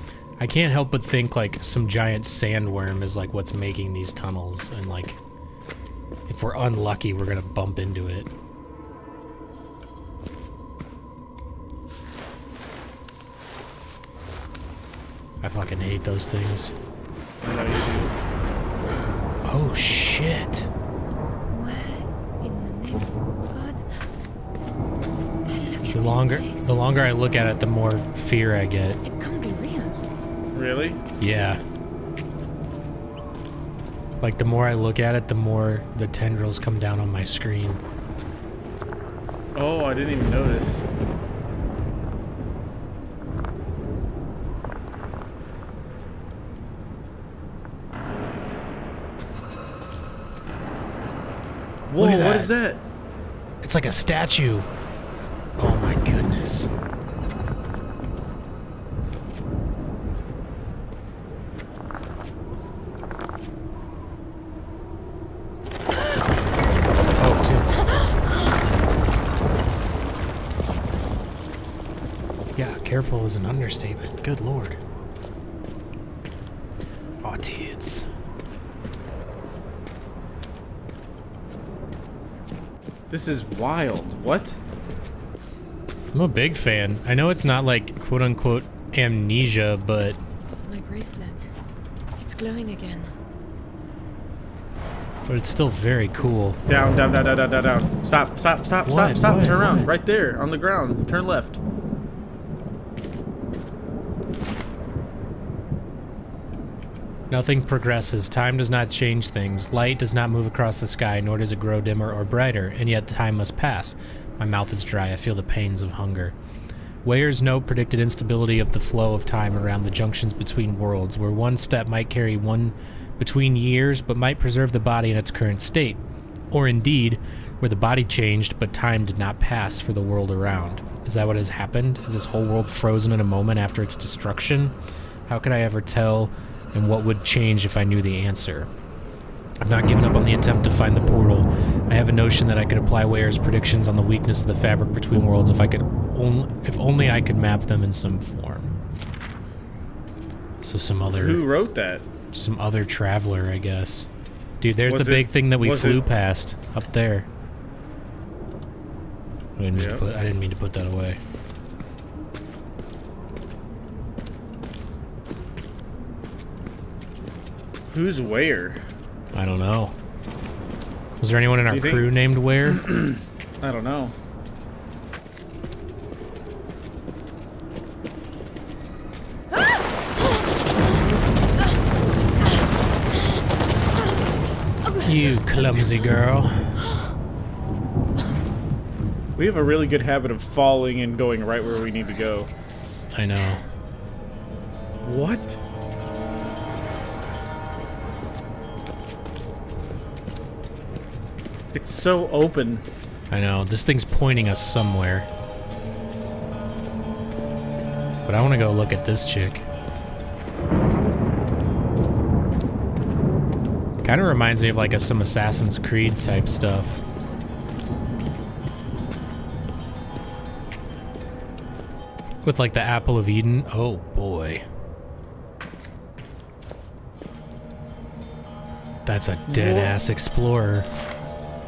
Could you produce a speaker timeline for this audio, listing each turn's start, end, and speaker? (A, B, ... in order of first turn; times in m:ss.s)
0:00.4-0:05.2 A
0:06.3-0:08.3 A
0:15.4-0:16.7 A
0:17.4-0:18.1 B
0:19.4-0:20.7 A
0:21.5-0:24.0 C
0:25.5-0:27.6 C
0:25.9-0:29.0 A
0:29.0-0:30.0 C
0:30.5-0:31.0 B
0:31.2-0:31.6 A
0:34.2-0:37.8 A
0:39.5-0:40.8 B
0:51.9-0:52.8 B
0:52.0-0:52.5 A
0:53.6-0:54.7 A
0:55.6-0:56.7 A
1:07.2-1:07.9 A
1:08.0-1:08.5 C
1:09.4-1:09.9 C
1:10.6-1:11.2 C
1:12.6-1:14.8 A
1:17.2-1:18.0 A
1:23.1-1:24.6 B
1:26.1-1:30.2 A
1:30.6-1:31.5 C
1:32.2-1:33.1 C
1:35.3-1:36.6 A
1:36.7-1:41.6 B
1:38.8-1:39.9 A
1:47.3-1:56.3 A
1:57.0-2:14.8 A
2:15.3-2:18.7 A
2:19.6-2:28.7 A
2:30.6-2:31.4 A
2:31.1-2:32.0 B
2:32.3-2:34.1 A
2:34.6-2:37.3 A
2:34.8-2:36.0 B
2:39.6-2:41.2 A
2:39.7-2:40.0 B
2:47.9-2:48.8 B
2:49.3-2:49.9 A
2:51.2-2:52.8 A
2:51.7-2:54.1 B
3:04.8-3:05.9 C
3:05.0-3:06.8 A
3:06.8-3:07.1 C
3:09.4-3:12.5 B
3:11.6-3:12.5 C
3:13.1-3:13.6 A
3:15.0-3:15.6 B
3:21.7-3:22.8 B
3:23.3-3:25.3 A
3:28.2-3:29.6 A
3:34.0-3:37.0 A
3:42.4-3:44.6 A
3:49.0-3:50.9 A
3:49.5-3:50.0 B